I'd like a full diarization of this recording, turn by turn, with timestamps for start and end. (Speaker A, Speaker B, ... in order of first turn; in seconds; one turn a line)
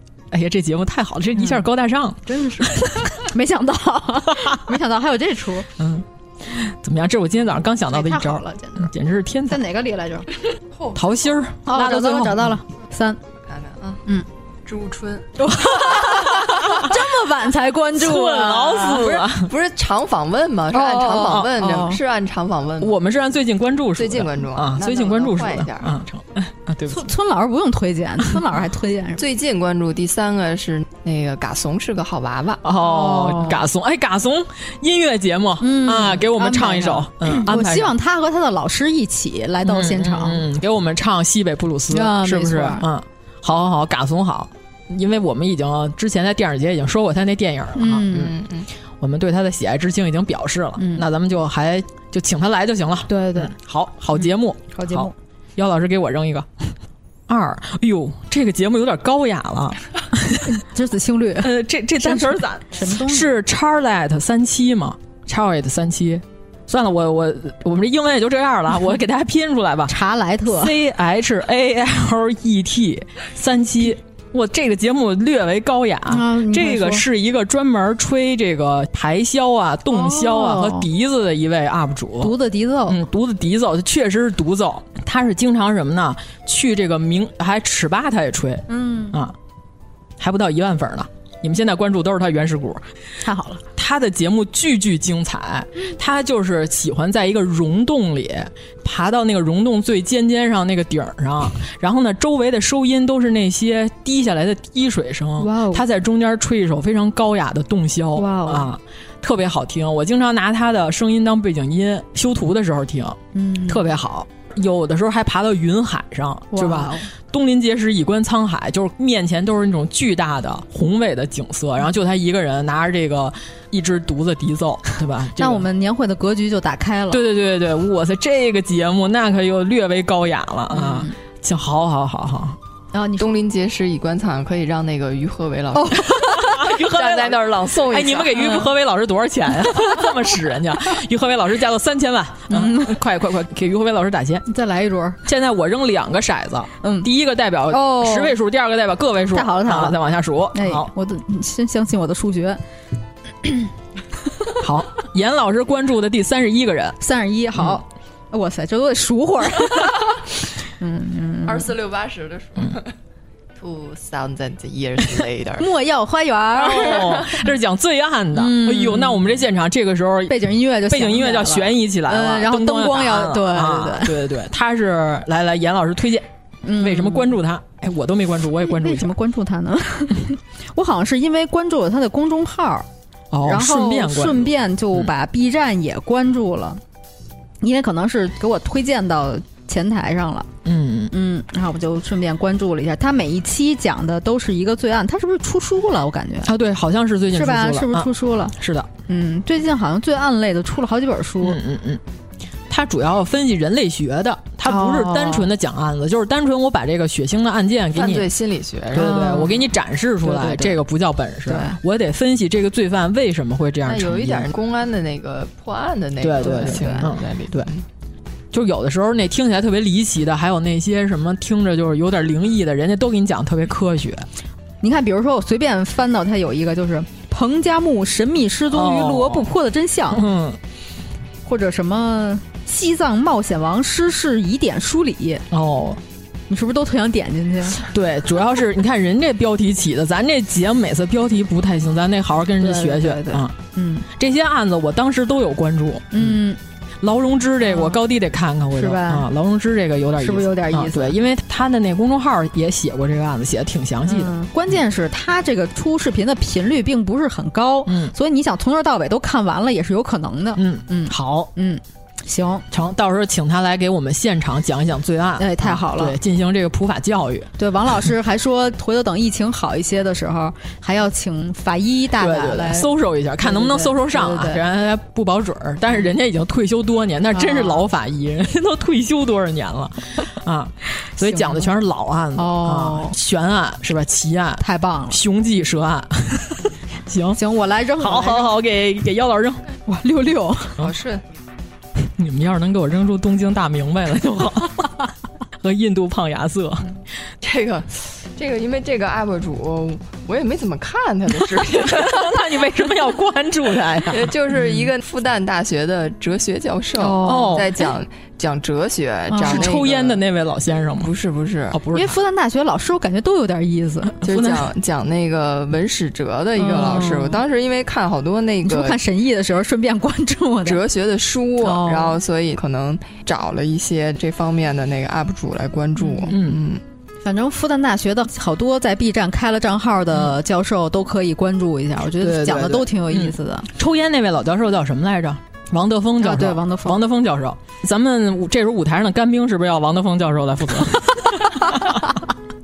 Speaker A: 0.3-3.1
Speaker B: 2.3-5.7
Speaker A: 5.8-9.6
Speaker B: 7.9-8.9
Speaker B: 9.5-10.3
Speaker C: 10.8-11.0
Speaker A: 10.9-12.6
Speaker B: 11.7-13.2
Speaker C: 13.5-14.0
Speaker C: 14.7-15.3
Speaker B: 15.4-19.2
Speaker A: 15.9-16.9
Speaker A: 17.9-19.5
Speaker C: 19.3-23.0
Speaker B: 20.7-22.0
Speaker A: 22.8-27.1
Speaker C: 24.0-26.0
Speaker B: 26.9-29.2
Speaker C: 29.2-32.6
Speaker A: 32.6-37.9
Speaker B: 32.8-33.6
Speaker B: 35.6-40.4
Speaker A: 39.6-48.3
Speaker B: 41.9-42.9
Speaker B: 47.8-48.3
Speaker C: 48.2-48.7
Speaker A: 49.0-56.7
Speaker B: 50.8-51.0
Speaker B: 53.1-53.5
Speaker B: 54.7-55.1
Speaker A: 57.3-60.5
Speaker B: 60.5-63.3
Speaker A: 61.4-69.9
Speaker B: 69.9-70.7
Speaker A: 70.5-82.3
Speaker B: 76.1-77.0
Speaker B: 79.9-80.9
Speaker B: 82.2-83.0
Speaker A: 82.9-89.3
Speaker B: 88.7-89.2
Speaker A: 90.2-92.8
Speaker B: 93.2-93.6
Speaker A: 93.8-125.7
Speaker B: 105.4-105.8
Speaker B: 108.2-108.7
Speaker B: 113.3-113.9
Speaker B: 116.5-117.1
Speaker B: 125.4-127.2
Speaker A: 127.1-132.6
Speaker B: 130.7-131.1
Speaker B: 132.9-133.3
Speaker C: 133.2-136.1
Speaker B: 135.8-136.6
Speaker A: 136.1-144.4
Speaker C: 136.6-138.6
Speaker B: 142.5-143.0
Speaker B: 144.5-145.2
Speaker A: 145.3-150.9
Speaker B: 146.8-147.1
Speaker B: 147.7-148.3
Speaker B: 149.3-150.0
Speaker B: 150.5-152.6
Speaker A: 154.6-157.0
Speaker B: 157.0-160.1
Speaker B: 160.8-161.7
Speaker C: 161.5-162.9
Speaker C: 163.6-165.7
Speaker B: 165.6-167.2
Speaker A: 166.6-179.1
Speaker C: 166.9-167.3
Speaker B: 168.3-169.3
Speaker B: 170.3-174.2
Speaker B: 176.7-177.3
Speaker B: 178.6-182.9
Speaker A: 183.3-185.1
Speaker B: 183.4-186.8
Speaker B: 187.6-190.5
Speaker A: 190.7-191.1
Speaker B: 191.1-196.5
Speaker A: 196.4-198.9
Speaker B: 197.3-198.5
Speaker B: 199.1-201.6
Speaker A: 201.4-202.0
Speaker A: 202.7-208.3
Speaker B: 204.7-205.5
Speaker C: 207.9-209.2
Speaker A: 208.9-214.5
Speaker B: 208.9-209.6
Speaker B: 211.5-211.8
Speaker C: 213.9-217.8
Speaker A: 216.2-217.7
Speaker B: 216.4-217.1
Speaker A: 218.5-224.3
Speaker B: 224.8-230.2
Speaker A: 228.7-229.5
Speaker A: 230.1-230.6
Speaker B: 231.5-235.4
Speaker A: 235.5-236.0
Speaker B: 236.5-237.8
Speaker A: 237.9-243.5
Speaker B: 242.6-244.1
Speaker A: 244.1-246.4
Speaker B: 246.1-246.6
Speaker A: 247.0-254.3
Speaker B: 247.6-248.0
Speaker B: 248.8-249.3
Speaker B: 250.2-251.2
Speaker B: 254.1-262.6
Speaker A: 257.9-258.1
Speaker A: 260.6-261.5
Speaker A: 262.7-267.5
Speaker B: 265.4-266.2
Speaker B: 267.6-272.9
Speaker A: 272.2-287.4
Speaker B: 273.4-274.6
Speaker B: 277.3-277.9
Speaker B: 281.2-281.7
Speaker B: 282.4-283.1
Speaker B: 284.6-285.2
Speaker B: 287.4-288.5
Speaker A: 288.0-289.6
Speaker B: 289.9-290.8
Speaker C: 290.8-291.2
Speaker A: 292.0-294.9
Speaker A: 295.6-296.9
Speaker C: 297.4-302.4
Speaker A: 301.8-304.4
Speaker C: 304.1-310.2
Speaker B: 307.0-307.6
Speaker A: 307.2-307.7
Speaker B: 309.3-309.7
Speaker A: 309.4-311.1
Speaker C: 311.0-311.8
Speaker A: 311.7-312.2
Speaker B: 311.9-314.2
Speaker A: 314.2-314.7
Speaker C: 314.2-319.0
Speaker B: 316.6-317.4
Speaker B: 318.6-320.8
Speaker C: 320.6-326.8
Speaker B: 321.6-322.2
Speaker B: 326.0-326.3
Speaker A: 326.3-326.6
Speaker B: 327.2-333.7
Speaker A: 332.2-342.1
Speaker B: 336.2-337.0